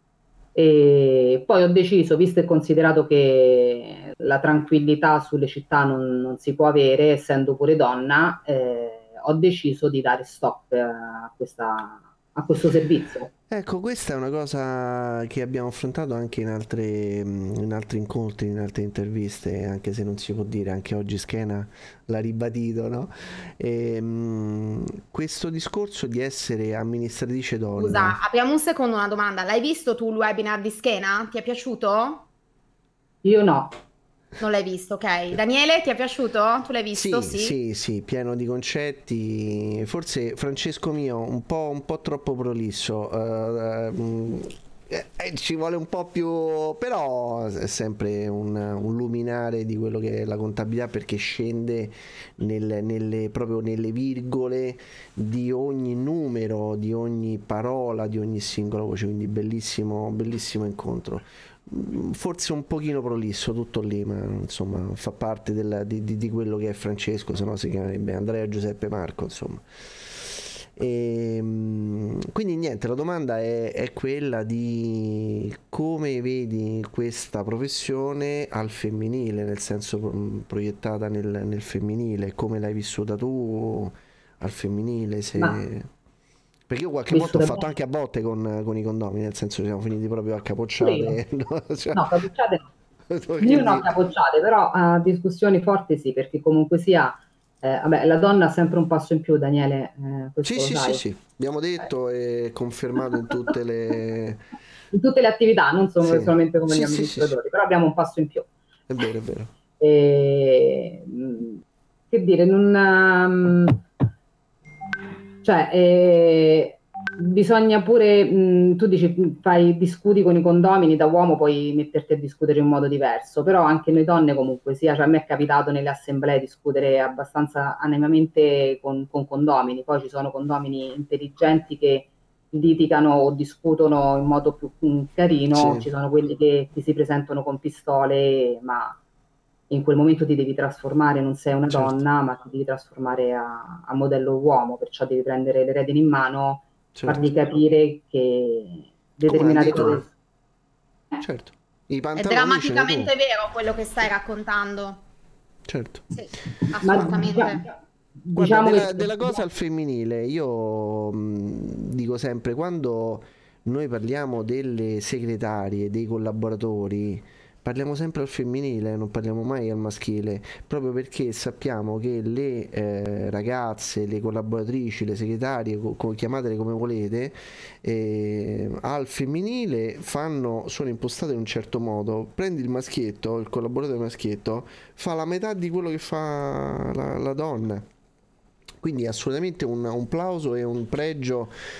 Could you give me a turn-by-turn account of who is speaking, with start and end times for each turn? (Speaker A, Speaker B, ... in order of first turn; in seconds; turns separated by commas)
Speaker A: 0.5-13.3, Speaker B: 13.5-28.2, Speaker C: 27.8-32.2, Speaker A: 33.2-33.7, Speaker C: 34.4-37.5, Speaker B: 36.9-85.9, Speaker B: 86.7-92.2, Speaker A: 87.1-87.7, Speaker A: 90.8-91.2, Speaker A: 91.9-92.7, Speaker B: 93.1-93.9, Speaker A: 93.4-101.0, Speaker B: 100.4-104.4, Speaker A: 104.9-108.5, Speaker B: 106.0-107.3, Speaker B: 108.9-109.5, Speaker A: 109.8-113.8, Speaker A: 115.4-139.0, Speaker B: 135.5-135.9, Speaker A: 139.7-150.1, Speaker B: 141.7-142.0, Speaker B: 146.9-147.3, Speaker B: 149.3-150.0, Speaker B: 151.2-153.1, Speaker C: 152.2-155.0, Speaker B: 155.7-156.1, Speaker C: 156.1-157.7, Speaker A: 156.8-157.7, Speaker A: 158.2-159.4, Speaker B: 158.3-187.8, Speaker B: 188.8-191.5